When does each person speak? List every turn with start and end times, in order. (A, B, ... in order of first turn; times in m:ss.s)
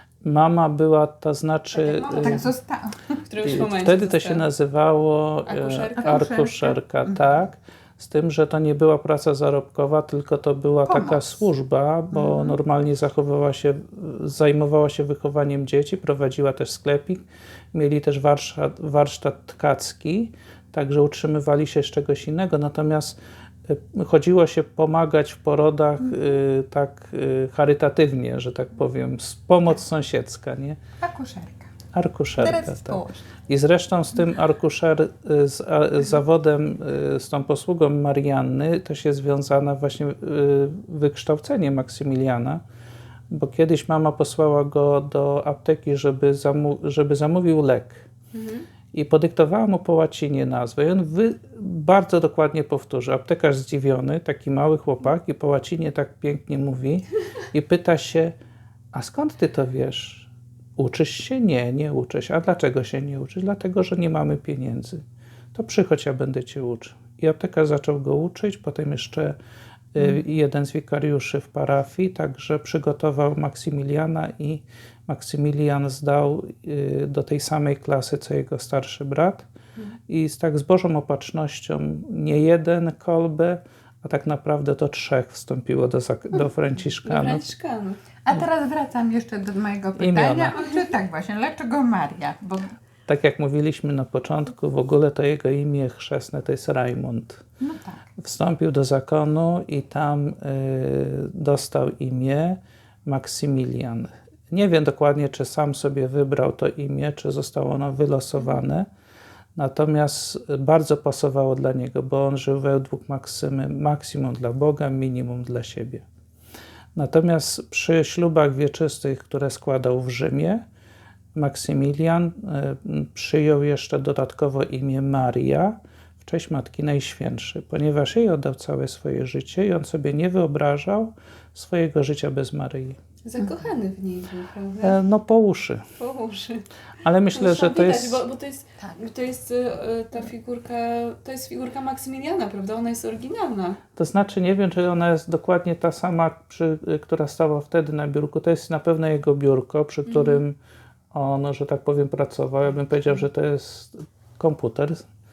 0:00.2-0:02.4 A
0:01.7-0:02.4 B
0:02.1-0:03.2 C
0:03.3-0:04.4 B
0:03.4-0:30.8 A
0:05.4-0:06.3 B
0:06.0-0:07.2 C
0:10.8-0:11.4 C
0:12.1-0:12.5 C
0:31.0-0:31.7 C
0:31.9-0:42.6 A
0:32.4-0:33.3 C
0:43.3-0:48.1 A
0:48.3-0:48.6 B
0:48.9-0:58.3 A
0:58.9-1:05.0 A
1:05.5-1:09.4 A
1:09.9-1:19.4 A
1:20.1-1:27.4 A
1:27.0-1:28.0 B
1:28.2-1:32.8 C
1:30.0-1:30.5 A
1:33.1-1:37.4 A
1:37.6-1:38.1 C
1:38.2-1:48.9 A
1:49.6-1:56.0 A
1:56.9-2:00.6 A
2:01.3-2:13.0 A
2:13.2-2:15.0 B
2:14.8-2:15.9 A
2:16.0-2:16.6 B
2:17.0-2:18.2 A
2:17.3-2:23.8 B
2:24.0-2:30.6 A
2:30.1-2:30.4 B
2:31.1-2:35.0 A